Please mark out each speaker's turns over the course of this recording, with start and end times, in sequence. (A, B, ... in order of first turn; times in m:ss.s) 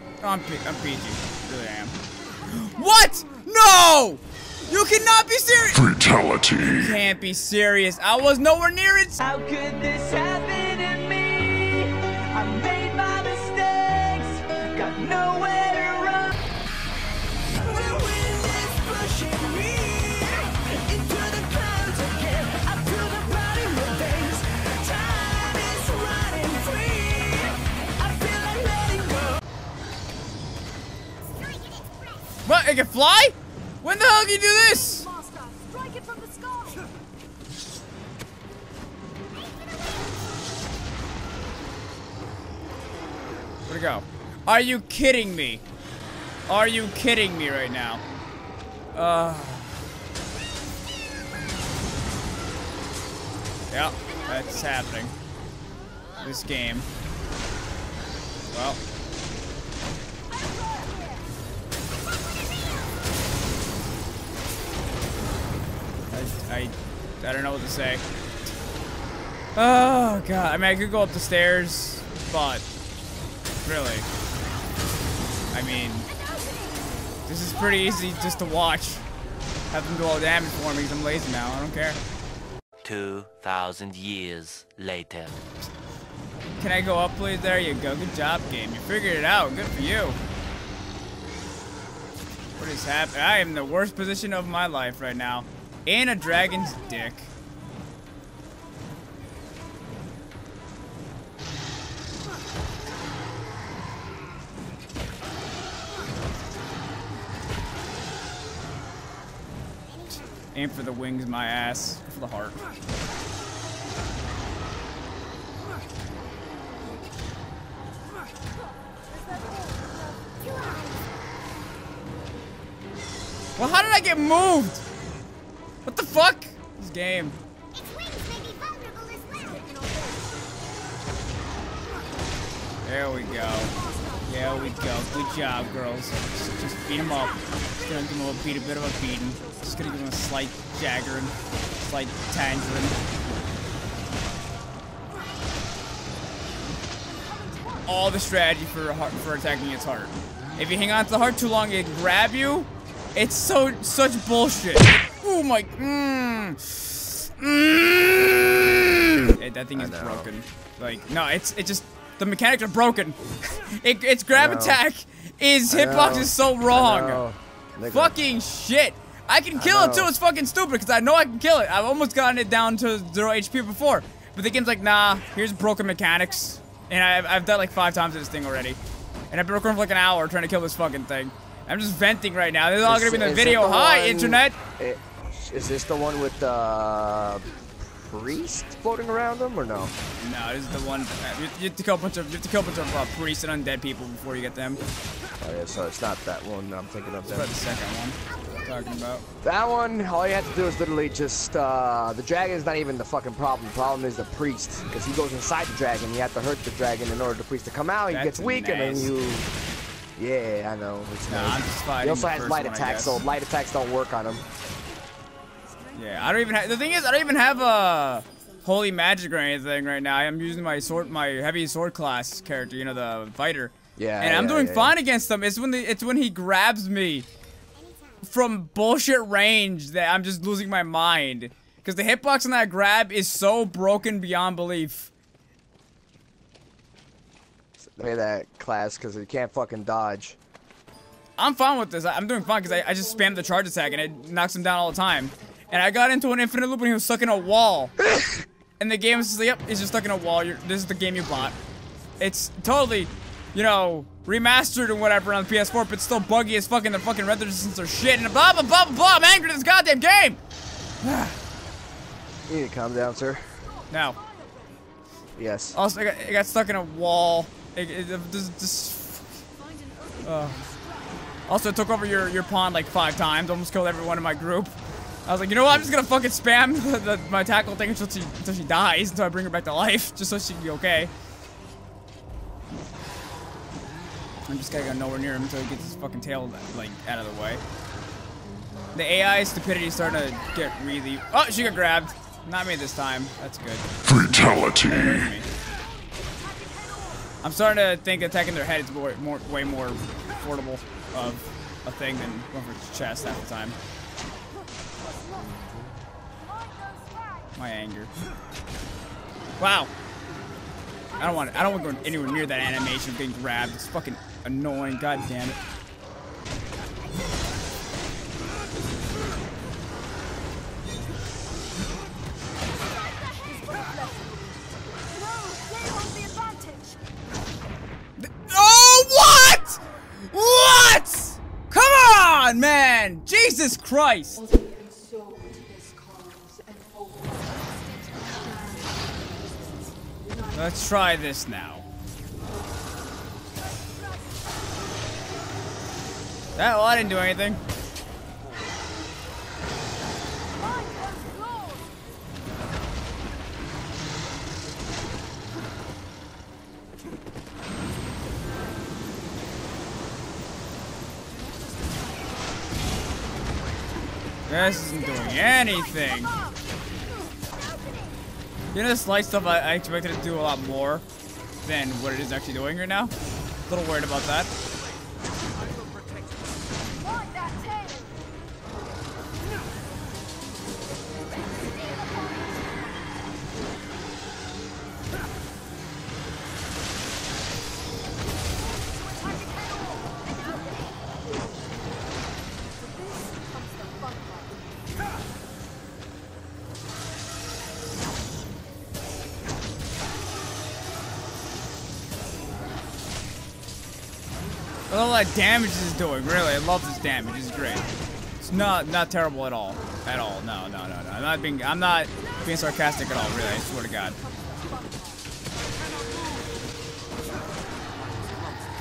0:00.2-0:09.2 A
0:09.4-0:16.2 B
0:17.6-0:29.4 B
0:32.5-0:35.1 A
0:35.8-0:36.2 B
0:43.7-0:45.6 A
0:46.5-0:48.0 A
0:48.9-0:49.8 A
0:53.7-0:55.1 A
0:56.2-0:56.9 A
0:58.5-0:58.8 A
1:06.1-1:08.0 A
1:09.6-1:12.6 A
1:13.6-1:14.1 A
1:15.5-1:16.1 A
1:17.3-1:19.0 A
1:19.7-1:22.0 A
1:22.8-1:25.4 C
1:26.6-1:30.2 A
1:32.6-1:37.3 A
1:50.5-1:52.6 A
2:03.6-2:04.8 A
2:05.9-2:07.4 A
2:08.0-2:09.6 B
2:12.8-2:23.0 A
2:27.9-2:47.2 A
2:39.7-2:40.3 D
2:44.3-2:44.8 D
2:45.7-2:48.2 D
2:47.9-2:58.8 A
2:49.6-2:50.1 D
2:59.3-3:04.6 A
3:02.8-3:09.9 D
3:10.2-3:14.8 A
3:15.4-3:17.5 D
3:17.3-3:19.2 A
3:19.4-3:29.5 D
3:28.1-3:29.1 A
3:30.2-3:34.4 D
3:31.3-3:33.2 A
3:35.9-3:47.3 A
3:44.0-3:45.0 D
3:48.2-3:55.1 A
3:57.8-4:00.4 D
4:01.4-4:08.1 A
4:08.8-4:11.6 A
4:12.2-4:20.4 A
4:21.0-4:21.4 A
4:22.5-4:23.6 D
4:23.9-4:24.2 A
4:25.4-4:25.8 D
4:25.7-4:29.4 A
4:30.2-4:30.7 A
4:31.5-4:41.1 A
4:44.5-4:47.6 A
4:48.9-4:55.5 A
4:57.4-5:03.8 A
5:05.4-5:05.8 D
5:07.6-5:08.1 A
5:09.6-5:09.9 A
5:11.2-5:15.6 A
5:26.6-5:26.8 B
5:28.2-5:34.4 A
5:40.5-5:41.9 A
5:46.6-5:47.6 A
6:04.5-6:06.4 A
6:08.7-6:11.0 A
6:11.6-6:13.1 A
6:13.7-6:14.5 A
6:17.5-6:17.8 B
6:44.9-6:47.8 A
6:48.4-6:54.2 A